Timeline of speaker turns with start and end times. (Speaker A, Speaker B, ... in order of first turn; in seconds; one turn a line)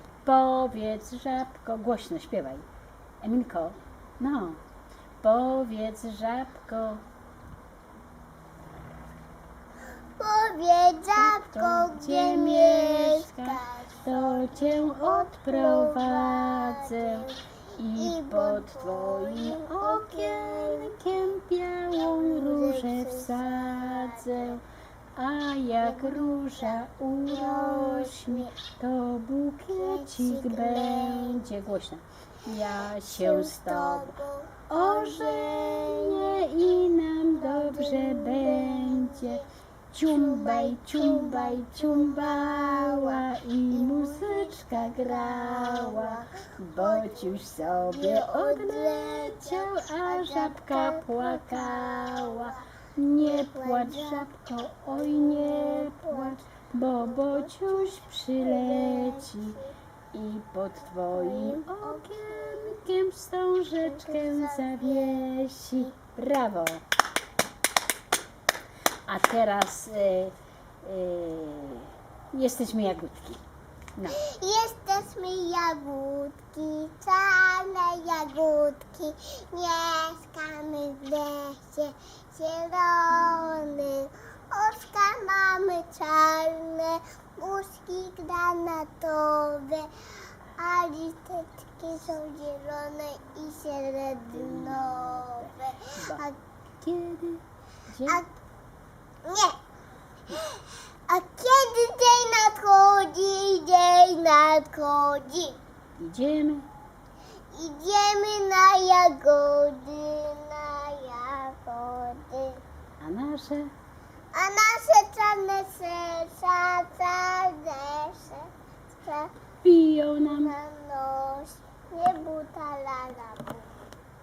Speaker A: 0.2-2.6
Speaker A: 3.2-4.6
Speaker A: 5.2-7.0
Speaker B: 10.2-21.2
Speaker A: 11.1-24.6
Speaker B: 21.9-24.6
Speaker A: 25.1-34.2
Speaker B: 25.8-28.5
Speaker B: 29.8-31.6
Speaker B: 33.0-39.4
Speaker A: 34.7-59.6
Speaker B: 40.1-54.3
Speaker B: 54.9-56.4
Speaker B: 57.0-59.7
Speaker A: 60.1-66.8
Speaker B: 61.1-62.8
Speaker B: 63.8-65.9
Speaker A: 69.1-73.4
Speaker B: 74.1-89.9
Speaker B: 90.6-96.4
Speaker A: 94.3-96.2
Speaker A: 96.8-98.2
Speaker B: 98.1-98.3
Speaker B: 99.2-99.6
Speaker B: 100.3-105.6
Speaker A: 106.0-106.7
Speaker B: 107.5-112.6
Speaker A: 113.0-113.7
Speaker B: 114.3-118.5
Speaker B: 119.0-119.3
Speaker A: 119.6-120.5
Speaker B: 120.2-123.7